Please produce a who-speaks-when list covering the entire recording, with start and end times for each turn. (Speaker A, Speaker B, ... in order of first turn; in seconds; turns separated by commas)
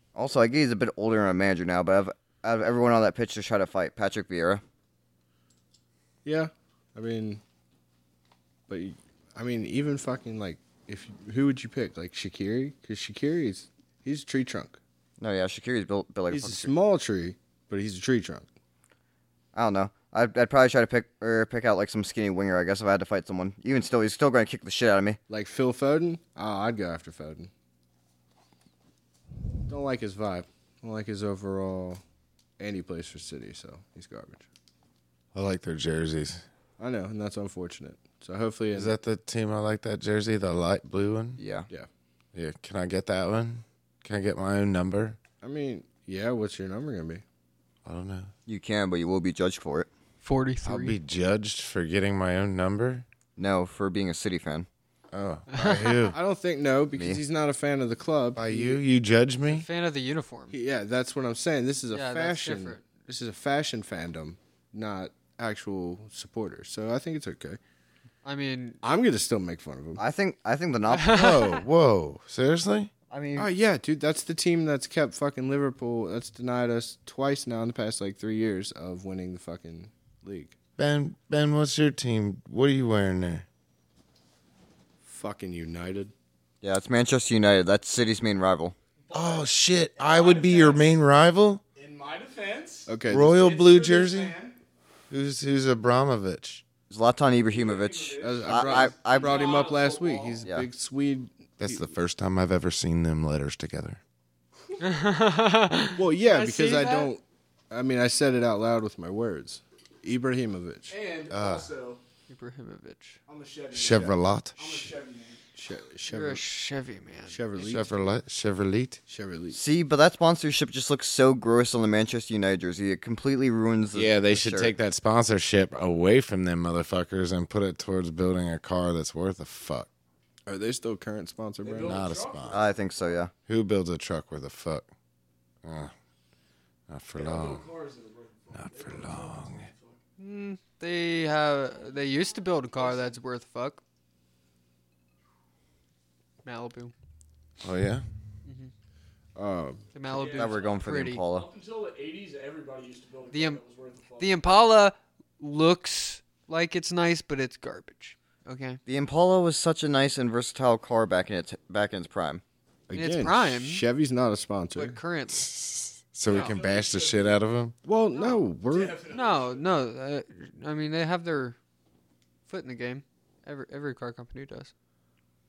Speaker A: 0.1-4.6, Speaker B: 6.2-7.4, Speaker B: 8.7-14.8, Speaker A: 15.2-16.7, Speaker B: 16.3-18.5, Speaker A: 19.5-25.2, Speaker B: 25.3-27.5, Speaker B: 29.7-32.0, Speaker B: 32.6-34.5, Speaker C: 35.3-36.4, Speaker B: 36.8-38.9, Speaker C: 38.7-41.4, Speaker A: 41.4-41.7, Speaker C: 42.3-45.2, Speaker B: 45.4-47.2, Speaker C: 47.8-48.3, Speaker A: 48.5-49.9, Speaker D: 50.2-51.0, Speaker C: 50.6-53.0, Speaker A: 53.4-54.7, Speaker C: 55.1-56.2, Speaker D: 55.5-55.9, Speaker B: 56.1-58.8, Speaker A: 56.9-57.2, Speaker C: 58.4-59.6, Speaker D: 59.4-60.5, Speaker B: 60.5-67.6, Speaker D: 61.9-62.8, Speaker D: 68.2-68.8, Speaker B: 68.8-70.0, Speaker A: 70.0-71.3, Speaker D: 70.9-71.6, Speaker C: 71.1-72.9, Speaker A: 73.1-73.5, Speaker B: 73.4-80.5, Speaker C: 80.8-83.5, Speaker B: 85.0-86.1, Speaker A: 86.6-88.8, Speaker E: 89.1-91.0, Speaker C: 89.1-91.6, Speaker E: 91.8-94.5, Speaker B: 92.9-93.4, Speaker C: 93.1-94.4, Speaker C: 95.1-96.6, Speaker A: 96.9-99.6, Speaker E: 97.5-100.4, Speaker B: 98.2-101.9, Speaker C: 101.6-104.0, Speaker D: 104.8-107.1, Speaker B: 106.0-111.0, Speaker E: 110.9-112.0, Speaker C: 111.3-111.7, Speaker D: 112.3-113.2, Speaker E: 113.3-115.5, Speaker C: 113.7-114.9, Speaker B: 115.5-116.4, Speaker D: 116.1-117.4, Speaker B: 117.3-118.0, Speaker C: 117.6-119.0, Speaker B: 119.1-119.6, Speaker A: 119.5-124.7, Speaker C: 123.9-129.9, Speaker B: 130.4-132.1, Speaker E: 131.6-133.2, Speaker C: 131.8-132.6, Speaker A: 132.5-133.3, Speaker C: 133.5-134.9, Speaker C: 135.6-135.9, Speaker C: 136.9-137.7, Speaker E: 137.1-140.0, Speaker C: 138.5-139.7, Speaker D: 140.2-143.8, Speaker E: 142.8-143.2, Speaker D: 146.4-146.9, Speaker C: 147.6-148.1, Speaker D: 148.4-148.7, Speaker B: 149.3-149.9, Speaker D: 149.9-151.2, Speaker E: 150.1-154.3, Speaker A: 150.3-151.5, Speaker D: 153.3-153.6, Speaker D: 154.2-158.8, Speaker A: 158.9-162.4, Speaker B: 162.9-165.0, Speaker D: 162.9-163.8, Speaker D: 164.7-165.5, Speaker C: 165.3-167.7, Speaker E: 166.2-167.4, Speaker B: 167.8-169.0, Speaker E: 168.1-169.7, Speaker D: 169.1-171.6, Speaker D: 172.5-174.7